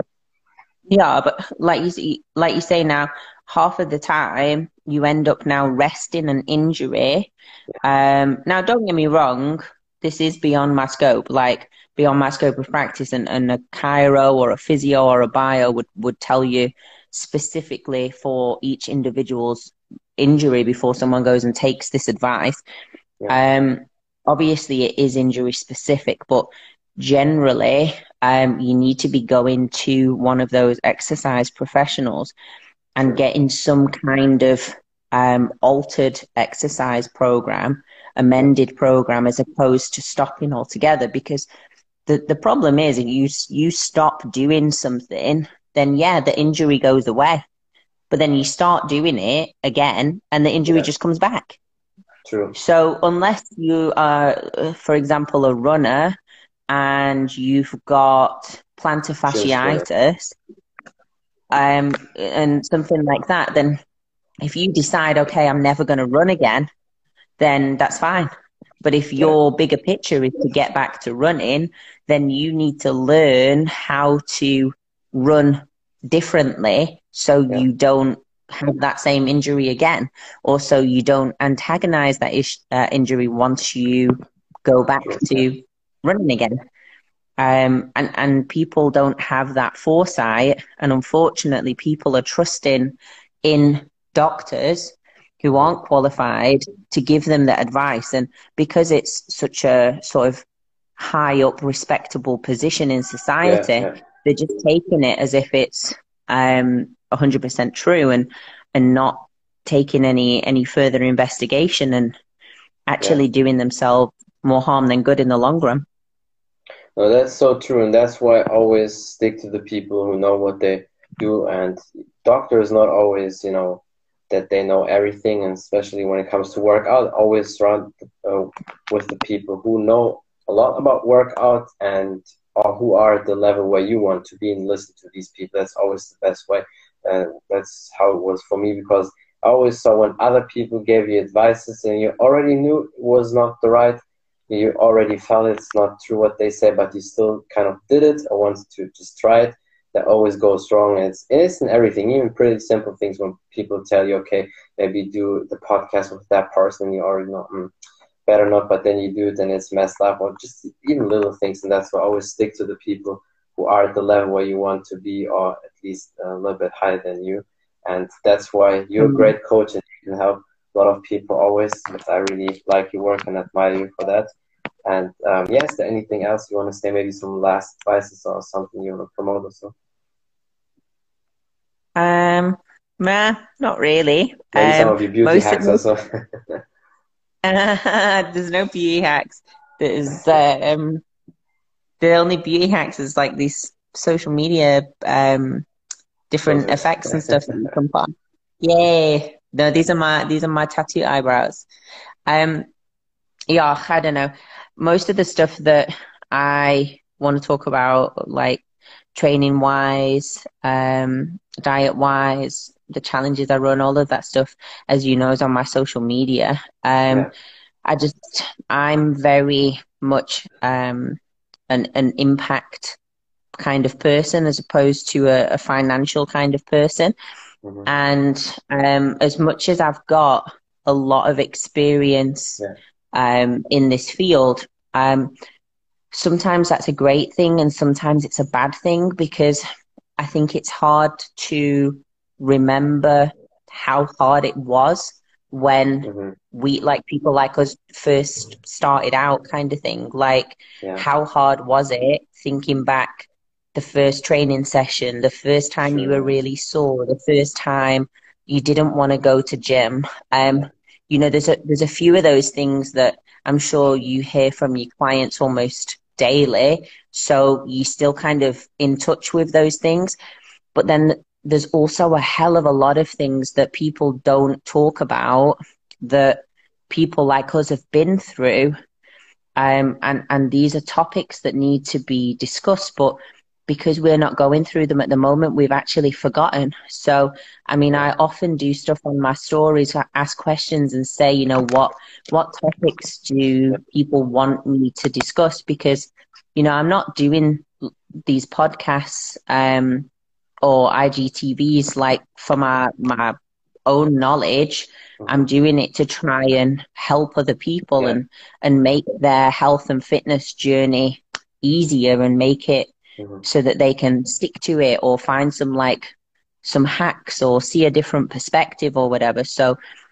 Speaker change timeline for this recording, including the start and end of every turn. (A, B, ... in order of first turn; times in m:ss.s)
0:00.9-0:07.3 A
0:07.8-0:22.6 A
0:23.3-0:32.3 A
0:33.0-0:41.5 A
0:42.1-0:47.4 A
0:48.1-0:51.6 A
0:52.2-0:52.6 B
0:52.5-0:56.2 A
0:56.7-1:00.4 A
0:59.3-0:59.8 B
1:01.5-1:03.8 A
1:04.4-1:06.7 A
1:07.4-1:08.3 A
1:08.8-1:26.6 A
1:25.1-1:25.5 B
1:27.4-1:40.4 A
1:41.0-1:52.1 A
1:43.4-1:44.0 B
1:52.9-1:55.8 A
1:57.0-2:37.7 B
2:38.3-2:54.3 B
2:49.0-2:49.3 A
2:54.8-2:59.7 B
3:02.0-3:05.8 A
3:04.5-3:06.6 B
3:07.4-3:11.0 A
3:12.0-3:15.7 A
3:16.3-3:21.7 A
3:16.5-3:17.7 B
3:22.3-3:22.7 A
3:23.5-3:28.6 A
3:29.1-3:37.3 A
3:37.8-3:43.0 A
3:43.6-3:47.1 A
3:47.8-3:52.6 A
3:53.1-3:55.3 A
3:56.1-3:59.6 A
4:00.2-4:30.2 A
4:06.0-4:06.4 B
4:15.9-4:16.4 B
4:30.7-4:38.8 A
4:39.6-5:00.1 A
5:00.6-5:03.4 A
5:03.9-5:12.9 A
5:13.4-5:16.1 A
5:16.6-5:19.8 A